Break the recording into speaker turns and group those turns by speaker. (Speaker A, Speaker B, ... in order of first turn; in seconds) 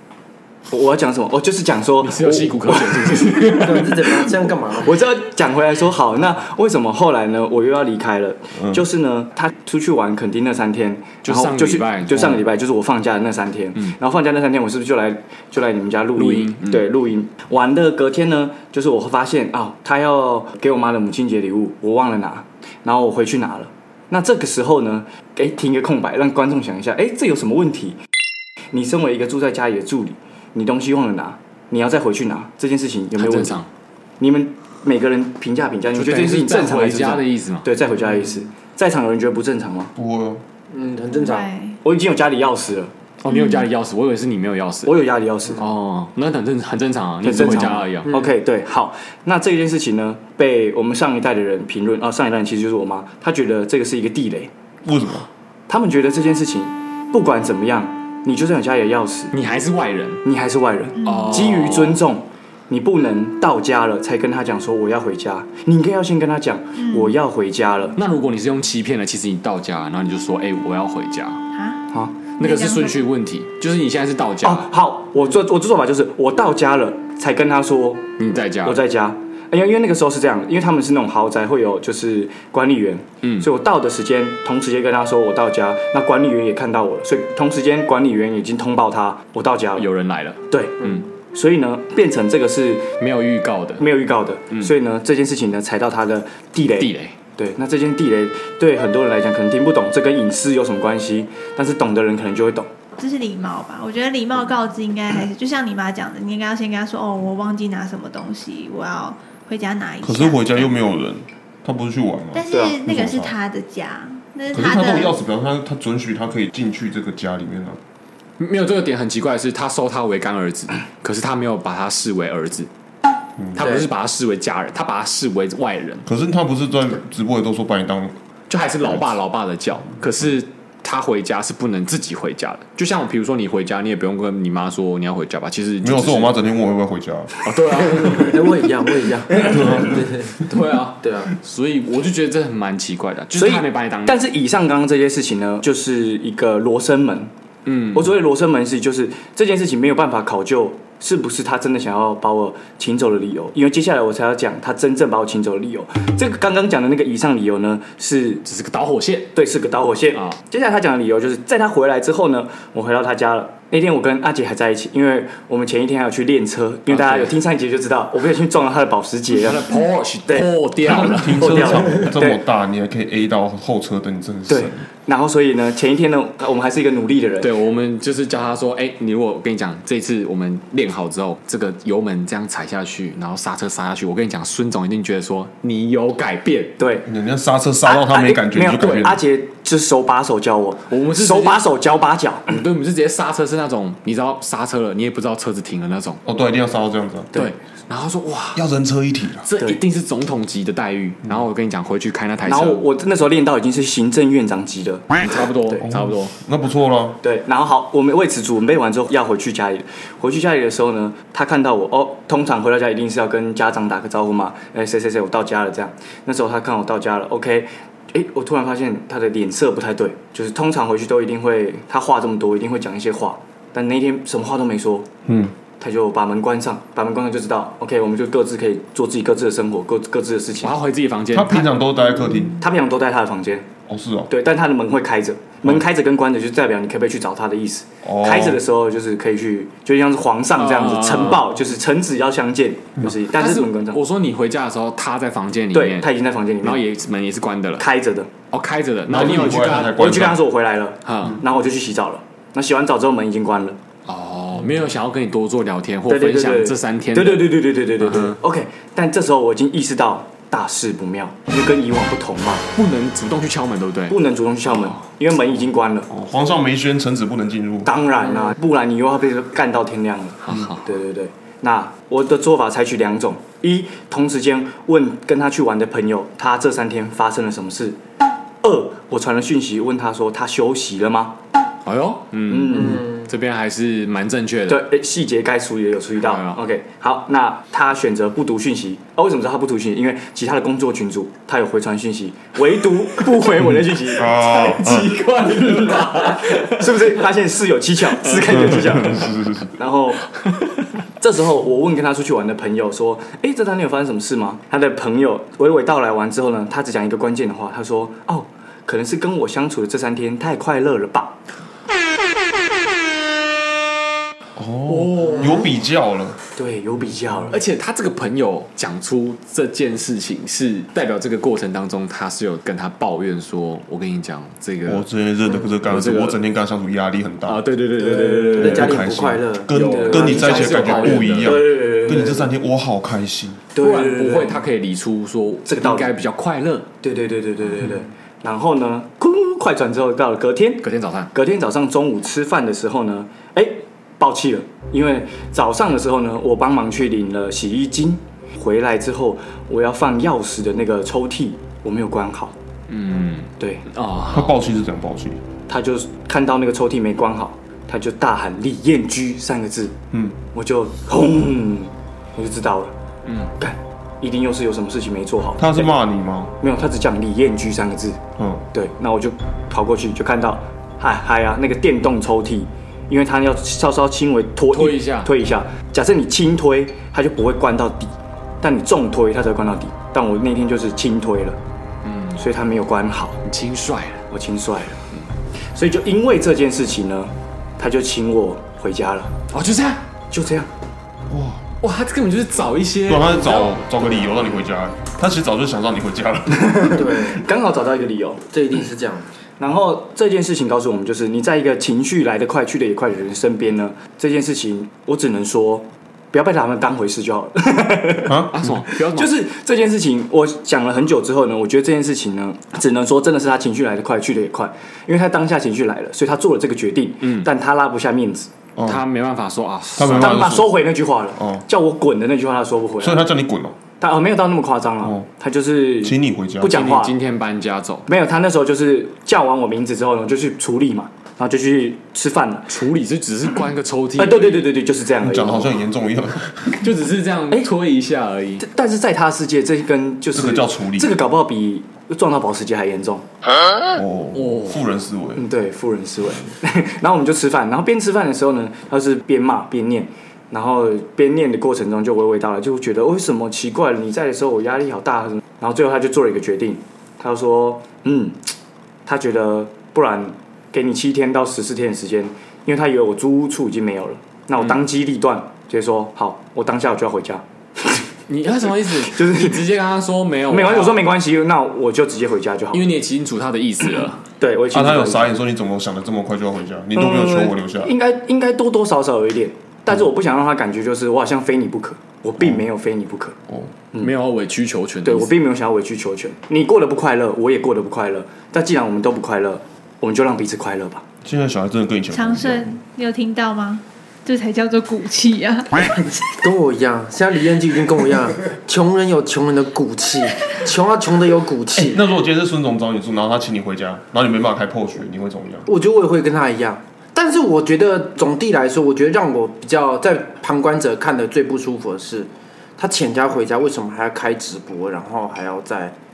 Speaker A: 0.7-3.9, 4.7-28.0, 28.7-33.6, 34.2-39.9, 41.8-42.9, 44.9-45.6, 47.2-54.5, 55.7-59.3, 60.2-68.0, 74.4-89.9, 90.5-92.9, 93.8-102.7, 112.5-112.8, 143.4-147.3, 147.9-158.4, 159.3-169.7, 170.3-172.4, 174.5-177.5, 186.8-187.1, 187.8-192.6, 202.5-205.1, 207.2-225.1, 225.8-230.8, 232.6-233.7, 234.3-244.0, 245.7-246.8, 247.8-248.3, 249.5-253.8, 256.1-262.6, 264.1-266.1, 267.9-278.0, 278.6-281.4, 282.5-283.1, 284.7-294.3, 295.4-300.3, 301.2-311.4, 316.6-317.6, 329.8-332.5, 333.8-334.6, 335.7-336.1, 337.0-352.5, 355.7-360.0, 360.5-362.9, 363.6-365.9, 366.6-368.2, 368.7-381.6, 382.4-383.4, 384.3-385.0, 385.7-389.3, 390.3-390.7, 396.5-398.4, 399.6-408.4, 409.1-418.5, 420.2-423.3, 424.0-427.1, 428.1-432.7, 434.2-435.8, 438.6-443.2, 445.4-458.4, 459.1-468.0, 468.7-469.6, 470.5-472.9, 474.4-475.4, 477.0-483.4, 485.0-491.1
Speaker B: 2.0-4.3, 11.2-12.4, 16.2-16.9, 33.2-33.7, 35.9-37.7, 43.2-44.9, 45.5-48.1, 59.3-60.2, 61.0-62.0, 68.0-71.4, 72.4-74.7, 78.2-78.8, 83.2-83.5, 89.8-91.0, 93.0-93.9, 96.8-97.2, 118.4-122.7, 123.5-126.1, 128.5-136.4, 137.4-138.6, 140.4-144.2, 147.7-148.1, 158.4-159.3, 166.9-167.4, 169.4-172.1, 177.4-186.8, 190.9-191.6, 192.5-196.2, 197.3-198.6, 199.4-202.8, 205.2-206.3, 230.6-231.7, 240.6-241.4, 243.3-246.1, 246.6-247.9, 248.5-250.2, 251.1-251.4, 254.1-258.4, 262.8-264.2, 270.4-270.9, 281.9-284.9, 286.2-286.6, 294.2-297.1, 298.2-298.6, 314.9-315.7, 317.5-325.1, 325.8-326.4, 327.5-329.1, 329.7-331.6, 333.8-336.9, 340.8-341.3, 352.9-354.6, 363.3-363.5, 374.7-375.3, 382.0-382.4, 383.4-384.2, 389.5-390.0, 391.8-394.0, 408.5-409.3, 417.2-417.5, 418.9-420.4, 426.7-428.1, 432.7-434.7, 436.7-438.6, 444.3-444.8, 468.3-471.1, 472.7-474.2, 484.0-485.3
Speaker C: 3.4-5.0, 40.7-41.5, 123.6-123.9, 138.0-140.4, 141.0-141.3, 328.0-330.5, 396.9-397.4, 398.5-399.3, 496.4-502.0, 505.7-516.0
Speaker D: 40.0-40.4, 54.9-55.3, 110.0-113.3, 114.5-117.8, 123.4-123.7, 126.1-128.2, 135.8-137.3, 139.5-140.0, 170.9-174.8, 187.1-189.2, 196.2-197.3, 198.6-199.5, 205.8-207.2, 225.3-225.5, 231.3-232.6, 233.9-234.3, 238.0-238.6, 249.1-250.4, 266.1-267.9, 294.1-295.2, 298.5-299.8, 314.6-316.4, 324.9-327.6, 328.6-333.6, 354.3-355.4, 360.1-360.4, 365.6-366.5, 368.4-368.6, 391.3-391.6, 393.1-396.9, 408.3-408.7, 418.8-419.0, 420.0-420.7, 421.4-421.6, 423.0-423.8, 426.0-426.8, 435.2-436.8, 440.3-441.1, 443.9-445.4, 474.7-477.9, 491.2-492.7, 501.8-505.7
Speaker E: 41.1-41.8, 43.3-43.7, 66.8-67.1, 71.5-71.8, 72.4-73.0, 103.0-110.5, 112.3-115.2, 492.1-496.0